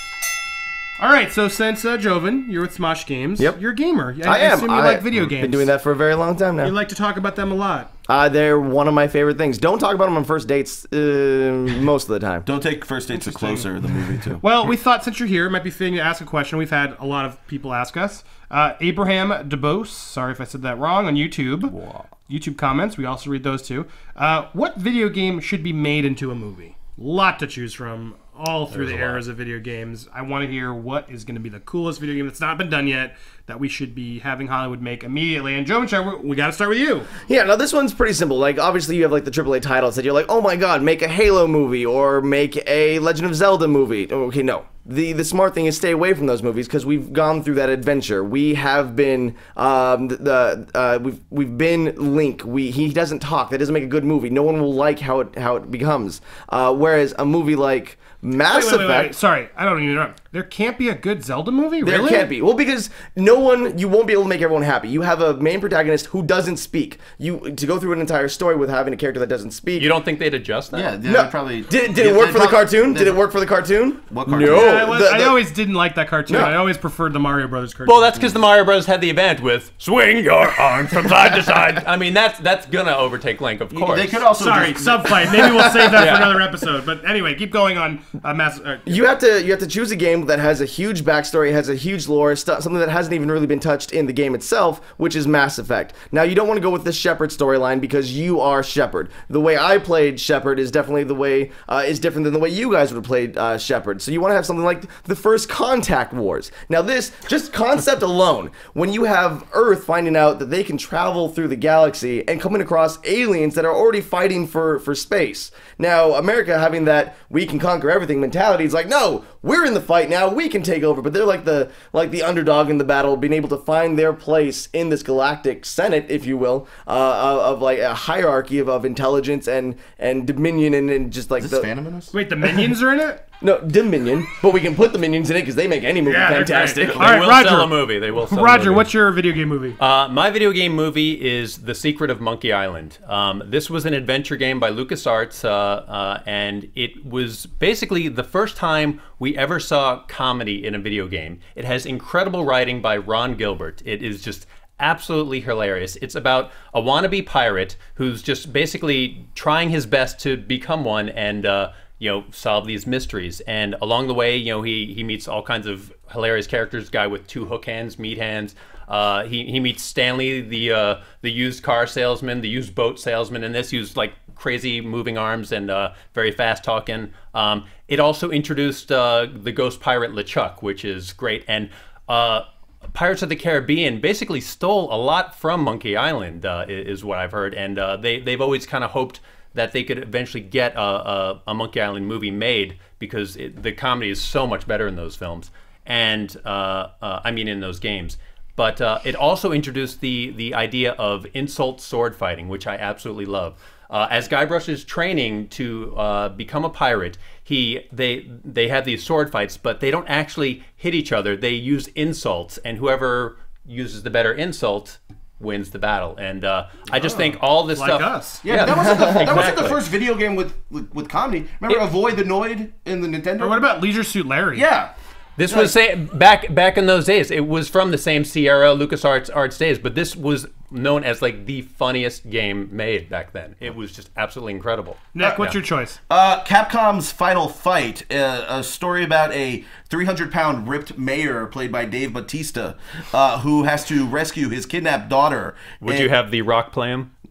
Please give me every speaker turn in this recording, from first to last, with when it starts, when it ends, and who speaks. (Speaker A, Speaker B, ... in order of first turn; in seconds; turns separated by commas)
Speaker A: 1.0-5.7, Speaker B: 4.2-6.8, Speaker A: 6.6-7.9, Speaker B: 8.1-12.5, Speaker C: 12.5-14.4, Speaker A: 13.2-13.7, Speaker A: 14.4-21.7, Speaker D: 21.8-22.0, Speaker A: 22.3-37.1, Speaker D: 28.7-29.2, Speaker B: 37.2-59.1, Speaker A: 58.5-62.3, Speaker B: 61.8-69.9, Speaker D: 69.8-71.0, Speaker C: 70.7-73.2, Speaker B: 71.0-75.4, Speaker C: 74.1-74.9, Speaker A: 74.4-78.3, Speaker B: 76.3-76.5, Speaker D: 77.8-84.3, Speaker C: 83.7-85.9, Speaker A: 84.4-89.1, Speaker D: 86.0-86.4, Speaker B: 88.9-131.7, Speaker C: 131.4-132.1, Speaker A: 132.1-133.2, Speaker B: 133.4-137.2, Speaker A: 136.1-139.8, Speaker D: 136.8-138.9, Speaker D: 139.8-219.8, Speaker A: 217.0-218.5, Speaker C: 218.4-223.6, Speaker A: 223.4-224.7, Speaker C: 224.5-224.9, Speaker D: 225.4-235.6, Speaker C: 225.5-225.7, Speaker A: 235.1-236.0, Speaker C: 236.1-246.1, Speaker D: 245.8-247.1